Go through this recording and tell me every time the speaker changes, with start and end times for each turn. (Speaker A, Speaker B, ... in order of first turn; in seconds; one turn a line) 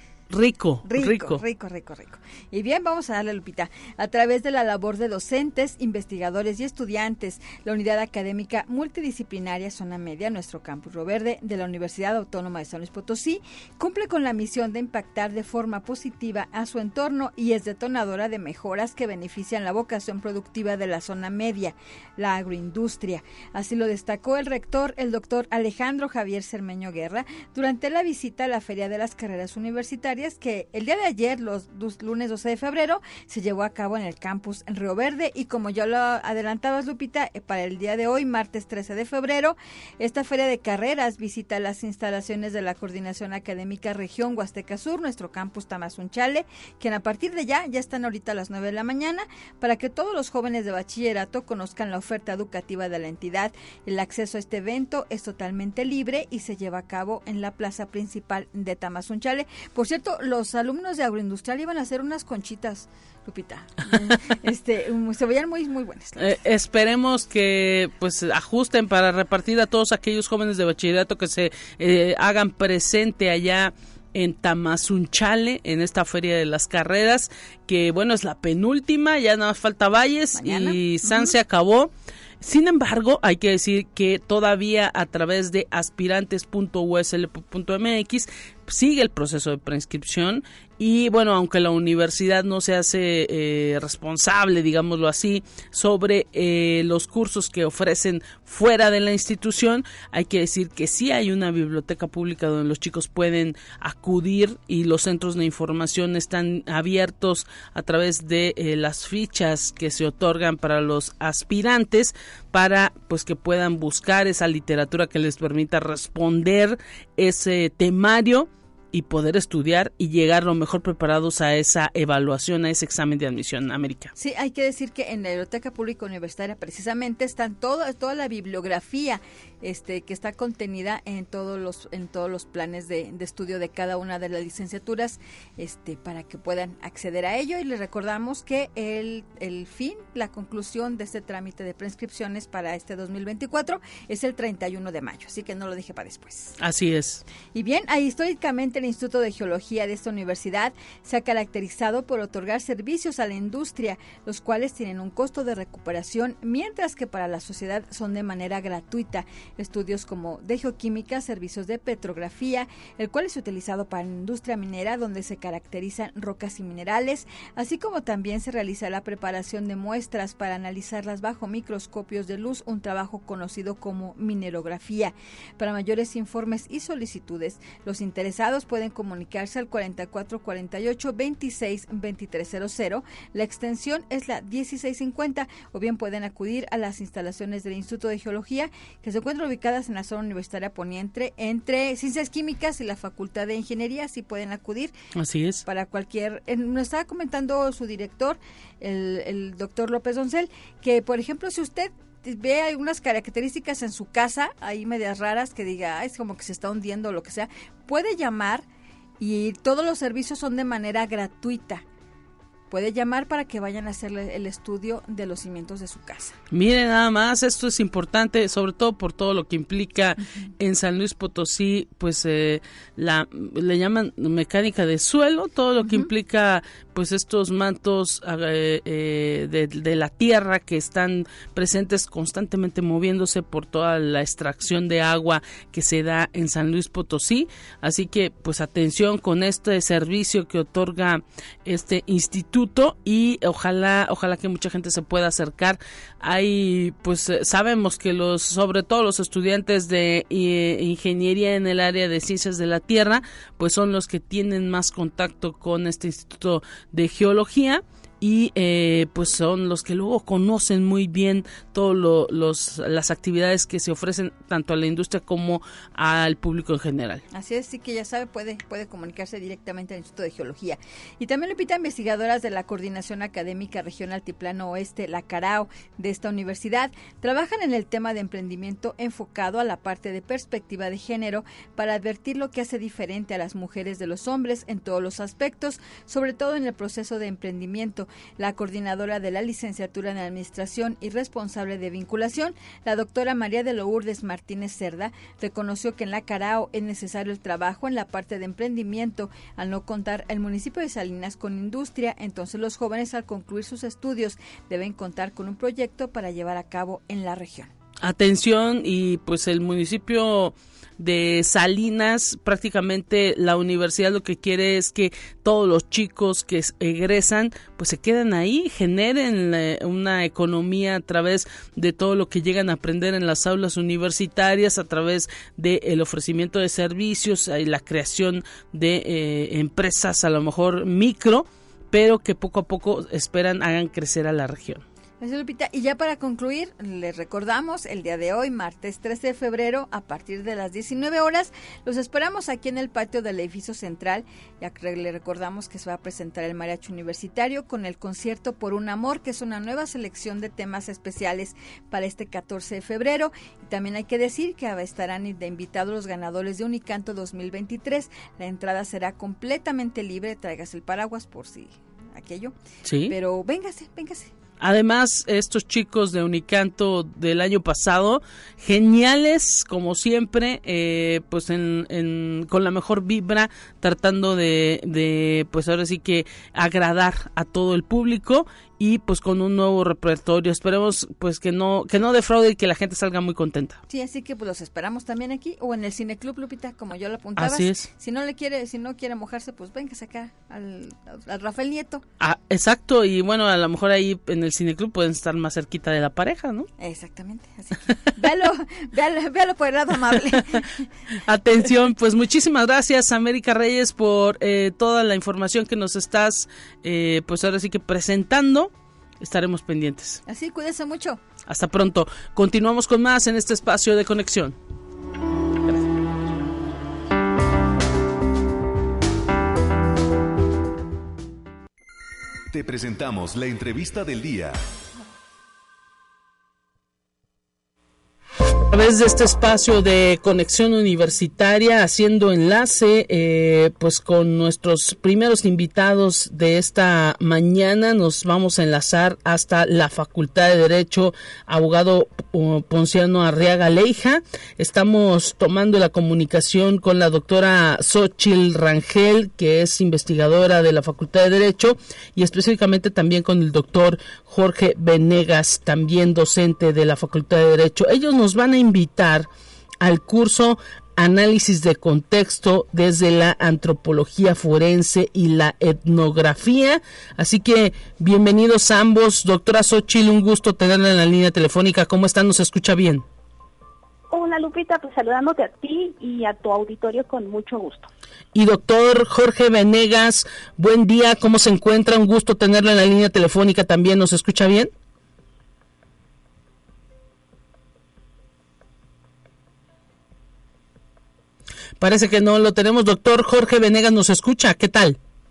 Speaker A: 0.3-1.4
Speaker B: 0.8-66.4
Speaker A: 66.2-124.1
Speaker B: 80.3-81.3
Speaker B: 124.2-146.6
Speaker A: 146.6-147.2
Speaker B: 147.5-194.9
Speaker A: 195.1-195.6
Speaker B: 195.6-208.7
Speaker B: 209.2-211.8
Speaker B: 212.7-216.4
Speaker A: 216.5-267.2
Speaker B: 225.8-226.1
Speaker B: 267.3-307.7
Speaker A: 308.0-334.8
Speaker B: 335.2-362.6
Speaker A: 362.8-363.1
Speaker B: 363.1-364.3
Speaker A: 364.6-383.8
Speaker B: 383.9-392.0
Speaker A: 387.4-387.9
Speaker A: 392.2-396.7
Speaker B: 396.8-400.9
Speaker A: 401.1-410.2
Speaker B: 410.2-411.2
Speaker A: 411.5-414.6
Speaker C: 422.5-424.6
Speaker A: 428.7-459.3
Speaker A: 459.8-473.0
Speaker D: 474.1-477.9
Speaker A: 478.3-484.7
Speaker A: 491.8-495.0